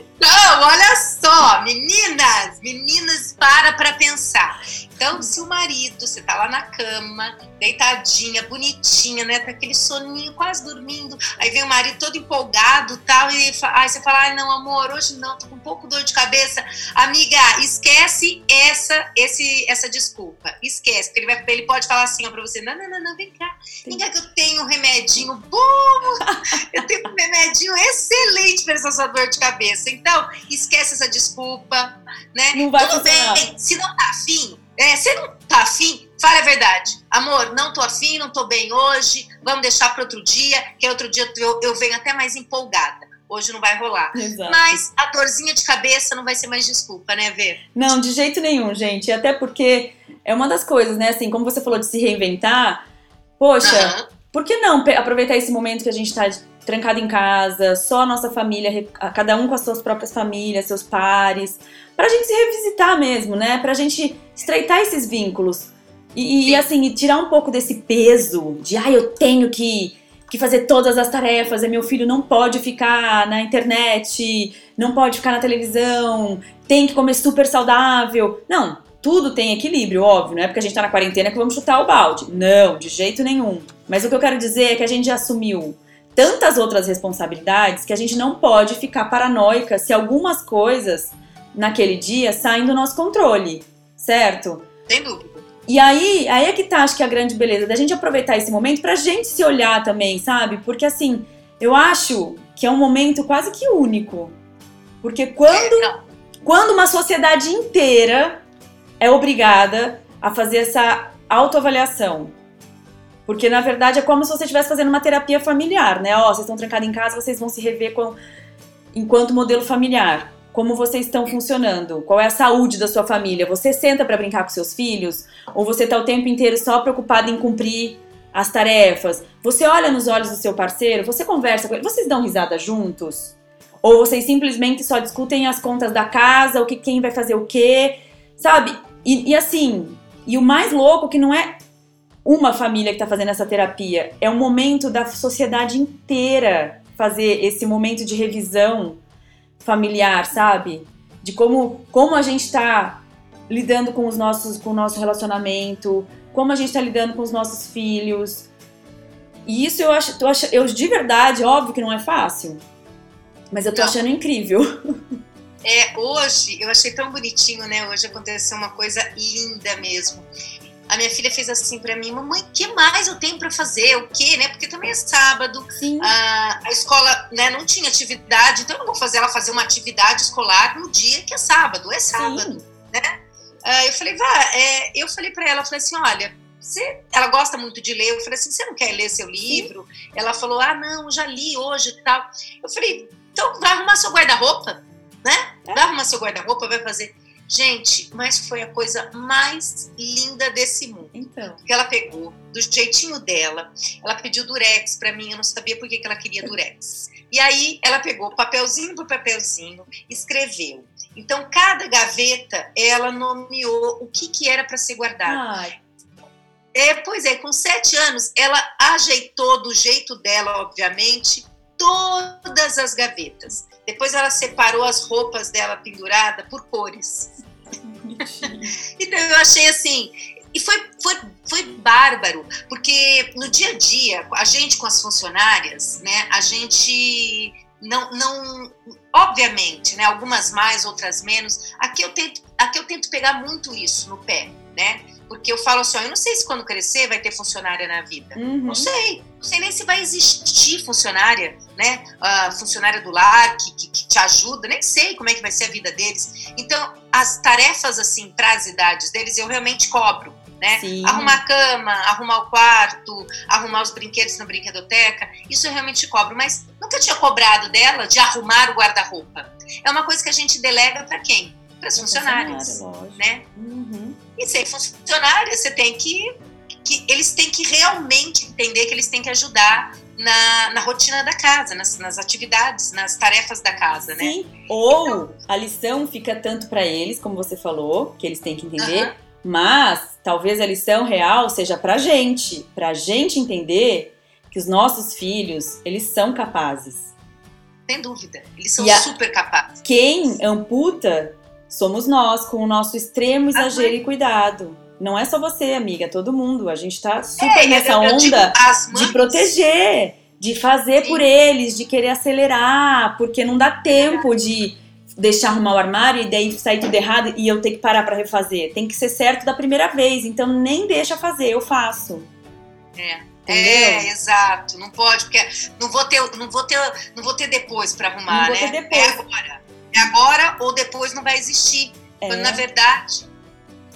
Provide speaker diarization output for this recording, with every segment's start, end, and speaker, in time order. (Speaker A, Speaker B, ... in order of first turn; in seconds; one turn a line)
Speaker A: 0.2-47.6
Speaker B: 32.5-33.5
Speaker B: 44.1-44.8
Speaker B: 47.7-52.8
Speaker B: 53.4-94.7
Speaker A: 53.6-54.0
Speaker A: 94.9-95.4
Speaker B: 95.7-104.3
Speaker B: 105.0-105.9
Speaker A: 105.5-106.0
Speaker B: 106.4-108.4
Speaker B: 109.0-112.3
Speaker B: 113.2-118.2
Speaker B: 118.9-141.6
Speaker B: 142.2-149.0
Speaker B: 149.6-158.5
Speaker B: 159.4-162.6
Speaker B: 163.5-164.7
Speaker A: 165.6-170.3
Speaker A: 170.9-183.1
Speaker B: 175.7-176.1
Speaker B: 182.1-182.6
Speaker A: 183.6-215.4
Speaker B: 201.1-201.6
Speaker B: 215.2-215.7
Speaker A: 216.7-227.4
Speaker B: 227.8-228.8
Speaker A: 228.4-273.4
Speaker B: 248.3-248.9
Speaker B: 260.8-261.4
Speaker B: 272.0-274.2
Speaker A: 274.4-276.3
Speaker A: 276.8-284.3
Speaker B: 284.2-297.1
Speaker A: 288.8-289.1
Speaker A: 297.9-299.8
Speaker B: 298.8-299.1
Speaker B: 299.8-322.3
Speaker A: 303.5-303.9
Speaker A: 307.4-309.5
Speaker A: 310.9-311.2
Speaker A: 313.9-314.3
Speaker A: 322.9-333.2
Speaker B: 323.4-324.1
Speaker B: 328.3-329.2
Speaker B: 332.2-332.6